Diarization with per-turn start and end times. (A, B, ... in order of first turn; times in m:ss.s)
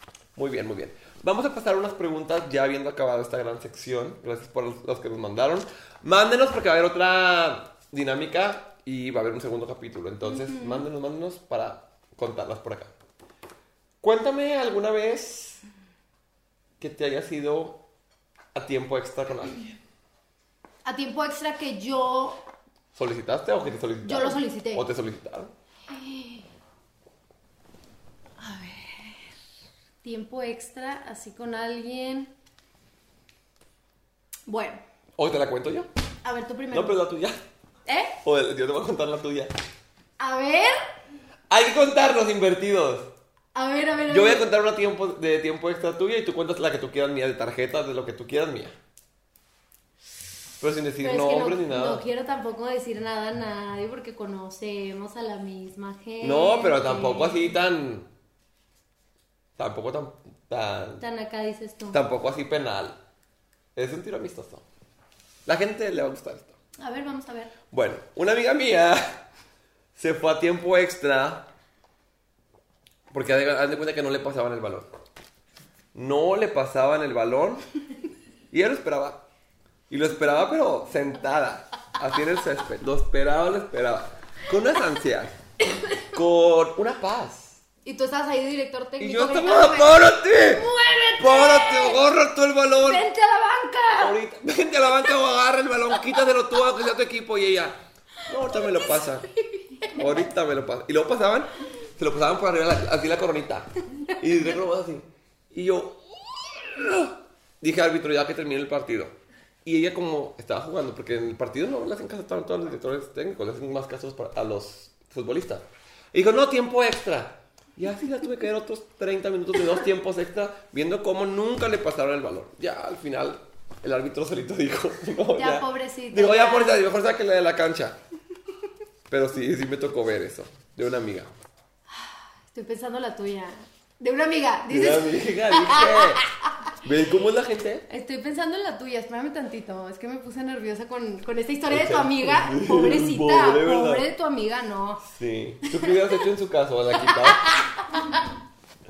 0:00.4-0:12.9 A
0:10.2-0:10.9 B
0:14.0-0:15.6 A
0:16.8-0:17.8 A
0:18.5-0:19.8 A
0:20.8-0:22.4 B
0:22.9-0:25.5 A
0:24.0-0:24.9 B
0:25.9-0:26.5 B
0:28.4-0:29.3 B
0:30.0-0:32.3 B
0:34.5-0:34.8 B
0:35.2-0:35.9 A
0:36.2-0:37.0 B
0:36.7-0:37.4 A
0:37.9-0:38.2 B
0:38.2-0:39.5 A
0:40.2-0:40.8 B
0:41.5-0:43.1 A
0:43.6-0:44.5 B
0:44.1-0:48.8 A
0:50.6-0:52.0 A
0:51.0-0:57.6 B
0:56.2-0:58.1 A
0:59.6-1:01.0 A
1:01.0-1:02.0 B
1:01.9-1:03.0 A
1:03.8-1:04.6 A
1:05.5-1:06.6 A
1:06.8-1:07.5 B
1:07.7-1:09.2 A
1:10.0-1:11.5 A
1:13.1-1:14.9 A
1:15.9-1:17.6 A
1:18.5-1:19.2 A
1:19.9-1:25.4 A
1:25.7-1:26.1 B
1:26.1-1:27.6 A
1:27.8-1:32.0 B
1:29.0-1:33.1 A
1:32.8-1:34.2 B
1:34.0-1:39.3 A
1:38.8-1:40.1 B
1:39.9-1:46.0 A
1:46.5-2:08.0 A
2:05.4-2:06.8 B
2:09.1-2:11.3 A
2:11.9-2:16.7 B
2:14.7-2:16.2 A
2:16.8-2:17.9 A
2:17.9-2:25.1 B
2:21.7-2:24.1 A
2:25.0-2:27.5 A
2:25.6-2:26.0 B
2:27.0-2:28.3 B